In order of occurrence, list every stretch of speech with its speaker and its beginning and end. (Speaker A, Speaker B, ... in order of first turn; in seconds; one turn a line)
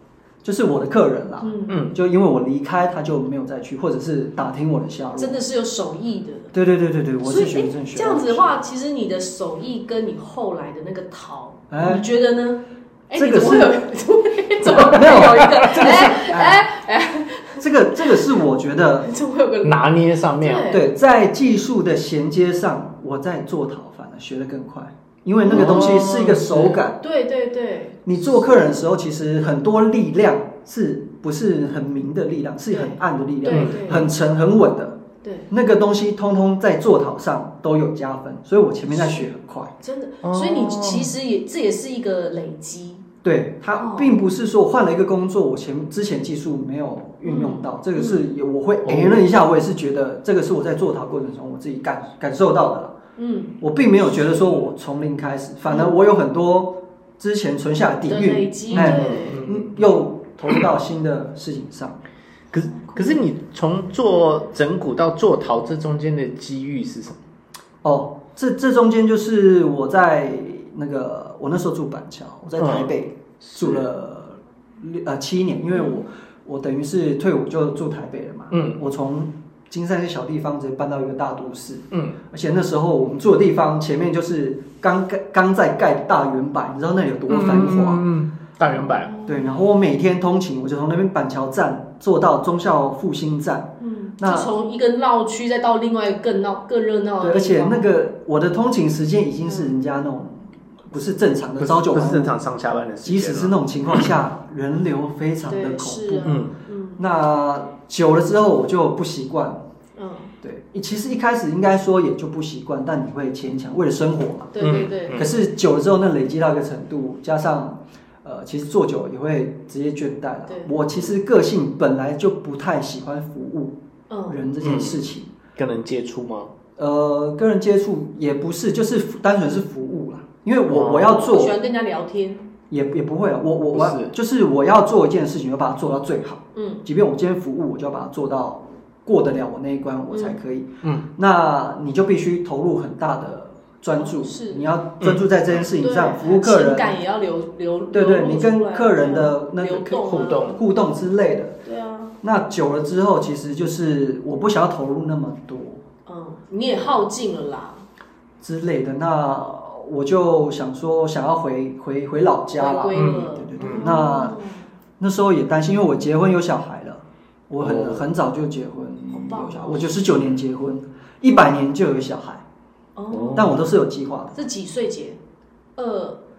Speaker A: 0.4-5.4
Speaker B: 1.4-1.8
Speaker C: 1.7-2.0
Speaker B: 5.2-6.5
Speaker A: 6.5-8.6
Speaker B: 7.2-18.3
Speaker A: 11.7-12.1
Speaker A: 13.1-13.8
Speaker A: 14.6-16.6
Speaker C: 14.9-16.0
Speaker A: 17.6-19.1
Speaker B: 19.0-20.9
Speaker C: 19.6-20.7
Speaker A: 20.7-27.0
Speaker B: 25.5-25.8
Speaker C: 25.5-26.8
Speaker B: 27.0-28.0
Speaker A: 28.1-39.7
Speaker B: 32.7-34.1
Speaker C: 33.5-33.9
Speaker B: 35.2-35.5
Speaker B: 39.8-43.0
Speaker C: 40.2-41.1
Speaker A: 43.2-53.0
Speaker B: 43.7-44.2
Speaker B: 47.2-48.2
Speaker C: 48.8-49.3
Speaker B: 53.2-53.5
Speaker A: 53.6-62.0
Speaker B: 55.7-55.9
Speaker B: 58.1-59.4
Speaker C: 58.7-59.9
Speaker C: 62.5-67.2
Speaker A: 67.8-88.0
Speaker C: 72.6-73.8
Speaker B: 75.7-76.0
Speaker C: 78.5-78.8
Speaker C: 81.9-82.2
Speaker C: 87.3-89.1
Speaker B: 88.7-89.5
Speaker A: 89.2-94.5
Speaker B: 93.8-97.9
Speaker A: 97.2-102.4
Speaker C: 101.6-104.1
Speaker A: 103.0-106.4
Speaker B: 105.5-107.0
Speaker C: 106.2-106.5
Speaker A: 107.0-109.6
Speaker B: 110.0-110.3
Speaker A: 110.4-123.8
Speaker B: 114.5-115.2
Speaker C: 114.6-115.3
Speaker B: 124.1-124.4
Speaker A: 124.3-125.3
Speaker C: 124.6-126.5
Speaker A: 126.8-131.6
Speaker C: 130.7-131.3
Speaker B: 131.2-132.4
Speaker A: 132.7-147.0
Speaker C: 133.7-134.1
Speaker B: 136.5-136.8
Speaker B: 140.1-140.4
Speaker B: 144.0-144.7
Speaker C: 145.0-145.2
Speaker B: 145.7-150.6
Speaker A: 147.9-151.6
Speaker C: 150.0-150.6
Speaker B: 151.6-152.1
Speaker A: 152.2-155.8
Speaker B: 156.1-157.8
Speaker A: 158.4-164.4
Speaker B: 162.6-164.7
Speaker C: 162.9-163.3
Speaker A: 165.0-172.4
Speaker C: 167.6-168.0
Speaker B: 169.1-169.9
Speaker B: 172.9-173.5
Speaker C: 173.1-173.6
Speaker A: 173.3-174.4
Speaker B: 174.3-175.2
Speaker B: 175.8-176.2